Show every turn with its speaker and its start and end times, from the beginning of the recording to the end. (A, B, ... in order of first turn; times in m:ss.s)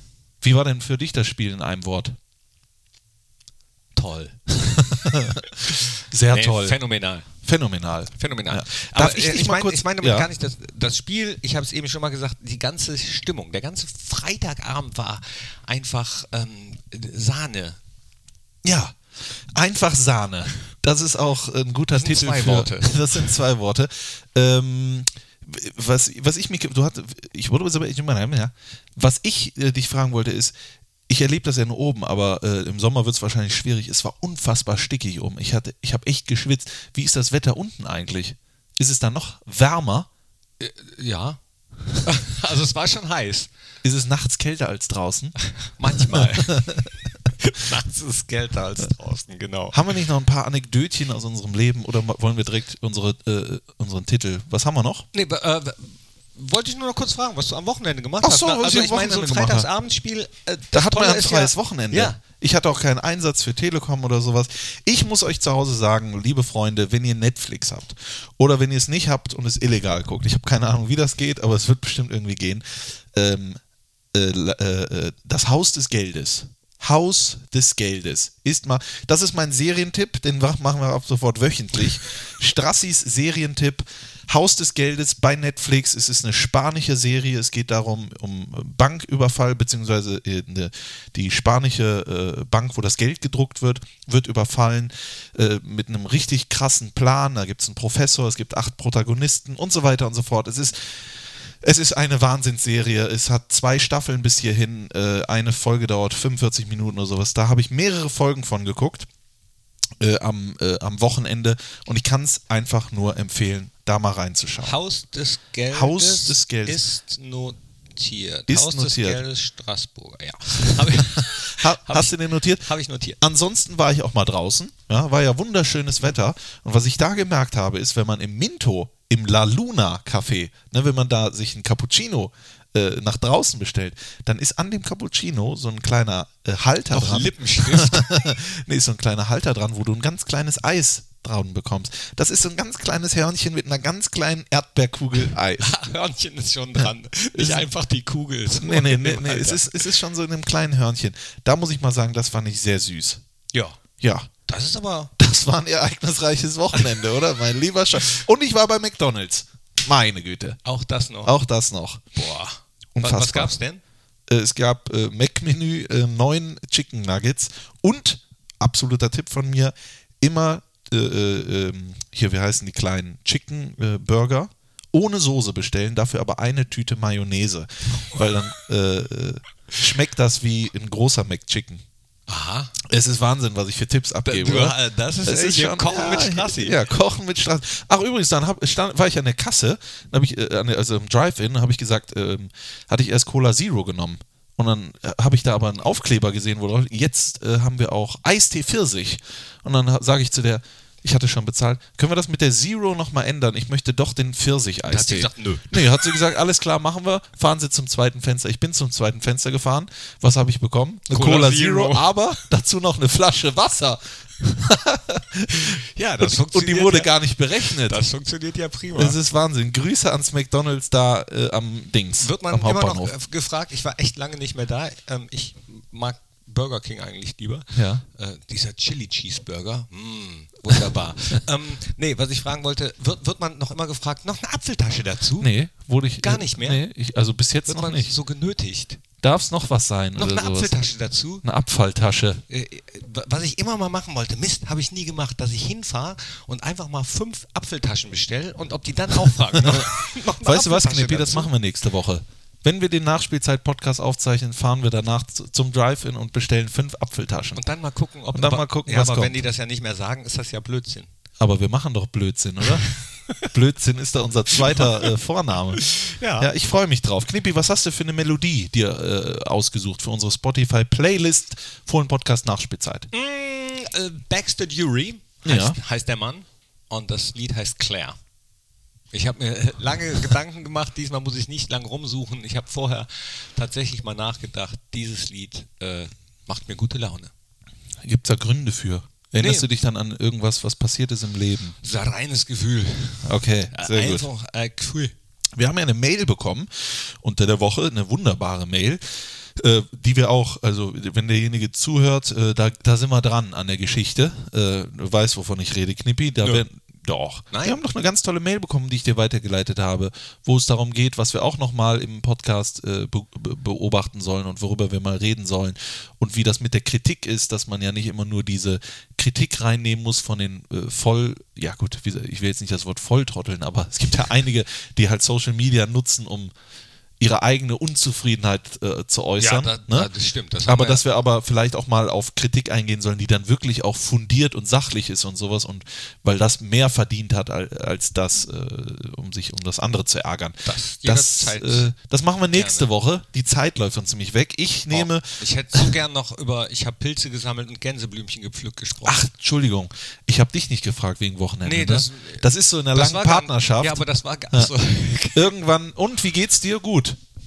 0:00.4-0:02.2 A
0:04.0-0:04.4 B
0:04.6-0:05.5 A
0:05.7-0:07.3 B
0:06.1-0:06.8 A
0:07.4-0:10.3 A
0:08.2-0:17.8 B
0:18.6-0:19.0 A
0:19.6-0:30.6 A
0:22.0-0:23.3 B
0:31.1-0:40.1 A
0:40.6-0:41.4 B
0:41.9-0:43.5 B
0:43.8-0:45.4 A
0:45.6-0:46.7 B
0:46.0-0:46.8 A
0:47.4-0:49.8 B
0:49.7-0:55.1 A
0:55.1-1:02.2 B
0:58.2-0:59.7 A
1:00.7-1:13.6 A
1:14.1-1:41.1 A
1:41.6-1:49.1 A
1:50.0-1:54.8 A
1:54.6-2:03.2 B
1:55.7-1:56.8 A
1:58.5-1:59.2 A
2:00.8-2:02.7 A
2:03.2-2:25.7 A
2:16.9-2:18.2 B
2:25.6-2:29.8 B
2:27.4-2:27.7 A
2:28.6-2:33.2 A
2:33.5-2:33.8 B
2:34.0-2:34.3 A
2:34.5-2:35.1 B
2:35.2-2:40.6 A
2:40.6-2:41.4 B
2:41.2-2:42.0 A
2:42.2-2:43.8 B
2:43.0-2:43.6 A
2:44.3-3:01.8 A
2:58.0-2:58.3 B
3:02.3-3:02.7 B
3:02.8-3:38.0 A
3:04.3-3:06.8 B
3:24.9-3:26.0 B
3:31.1-3:32.1 B
3:35.5-3:39.2 B
3:38.9-3:43.1 A
3:42.2-3:55.5 B
3:47.7-3:48.0 A
3:55.4-3:58.2 A
3:56.2-3:56.8 B
3:57.7-3:59.0 B
3:59.2-4:00.8 A
4:00.2-4:01.4 B
4:01.4-4:02.4 A
4:02.5-4:11.5 B
4:09.5-4:17.6 A
4:17.6-4:21.1 B
4:18.3-4:19.4 A
4:21.4-4:22.9 A
4:23.4-4:33.1 A
4:25.9-4:26.5 B
4:33.1-4:38.2 B
4:35.4-4:35.8 A
4:39.1-4:47.3 B
4:48.0-4:51.8 A
4:49.4-4:49.7 B
4:51.8-4:55.1 B
4:53.2-4:54.3 A
4:55.6-4:59.0 A
4:59.6-5:26.5 A
5:07.5-5:07.8 B
5:27.2-5:30.1 A
5:29.4-5:31.0 B
5:30.7-5:45.9 A
5:40.7-5:41.9 B
5:42.5-5:42.9 B
5:44.9-5:49.3 B
5:49.0-5:54.7 A
5:51.6-5:55.5 B
5:55.3-5:57.2 A